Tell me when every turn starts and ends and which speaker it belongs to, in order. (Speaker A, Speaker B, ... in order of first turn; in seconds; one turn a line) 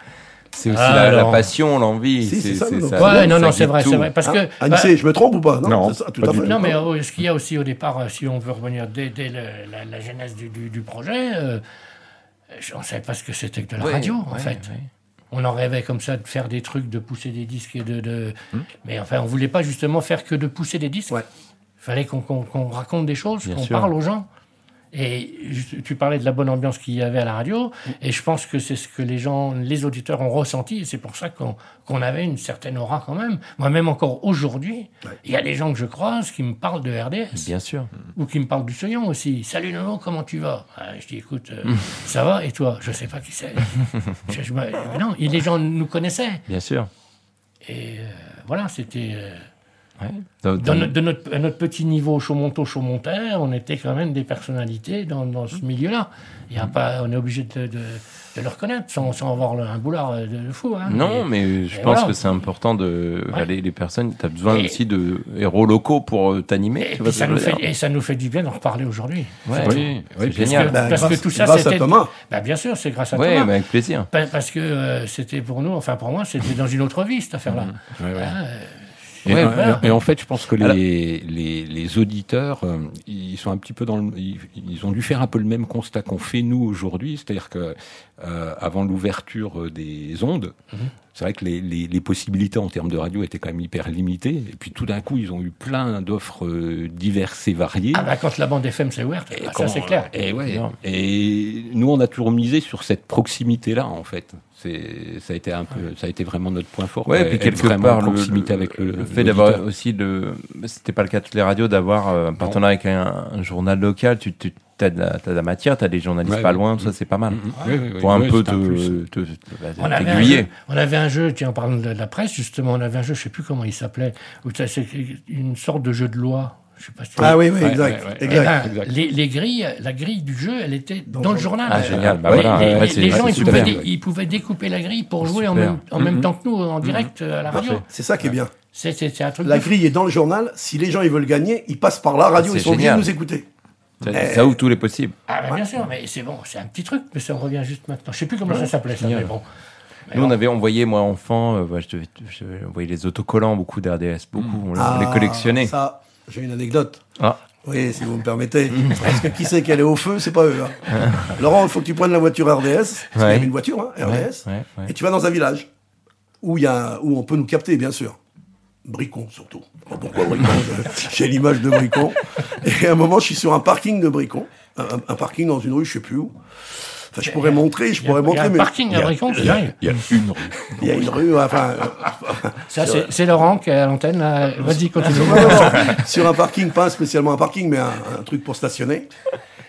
Speaker A: 0.5-4.1
Speaker B: 0.7-1.5
Speaker C: 2.2-3.4
Speaker B: 3.0-4.9
Speaker C: 4.2-6.8
Speaker D: 5.6-6.6
Speaker B: 6.2-11.6
Speaker B: 12.5-14.7
Speaker A: 13.8-14.9
Speaker B: 15.3-21.2
Speaker B: 21.8-24.3
Speaker A: 23.4-23.9
Speaker B: 24.9-37.5
Speaker A: 37.4-37.9
Speaker B: 38.1-46.4
Speaker A: 46.5-46.9
Speaker B: 47.6-49.5
Speaker A: 50.0-50.9
Speaker B: 50.6-62.2
Speaker A: 60.9-67.6
Speaker B: 64.5-64.8
Speaker B: 66.8-69.9
Speaker A: 69.5-70.8
Speaker D: 69.6-70.7
Speaker B: 70.4-73.5
Speaker C: 70.7-72.1
Speaker A: 73.1-74.1
Speaker B: 74.1-79.9
Speaker D: 77.5-78.4
Speaker D: 79.2-90.5
Speaker A: 79.3-79.8
Speaker D: 91.1-98.1
Speaker B: 97.9-100.1
Speaker D: 99.3-109.6
Speaker A: 100.4-100.7
Speaker A: 107.1-120.5
Speaker D: 116.2-119.0
Speaker B: 119.8-127.4
Speaker C: 127.2-128.6
Speaker D: 127.2-128.9
Speaker B: 128.3-137.8
Speaker C: 131.1-131.6
Speaker A: 131.7-133.8
Speaker D: 131.7-133.9
Speaker A: 135.2-135.8
Speaker D: 136.0-136.3
Speaker D: 136.8-137.1
Speaker C: 137.5-138.5
Speaker B: 138.7-139.7
Speaker C: 139.4-143.5
Speaker A: 142.4-143.1
Speaker A: 144.1-145.2
Speaker C: 144.1-144.6
Speaker B: 145.3-149.5
Speaker A: 148.5-149.3
Speaker B: 150.1-150.3
Speaker A: 150.1-155.7
Speaker C: 154.7-157.0
Speaker C: 157.6-165.7
Speaker A: 158.8-159.2
Speaker A: 160.9-161.3
Speaker A: 163.2-163.5
Speaker A: 164.0-164.9
Speaker C: 166.4-168.2
Speaker C: 168.8-176.3
Speaker C: 177.0-178.7
Speaker B: 177.2-179.8
Speaker D: 178.9-181.1
Speaker C: 180.8-183.1
Speaker B: 182.7-186.0
Speaker C: 184.9-189.1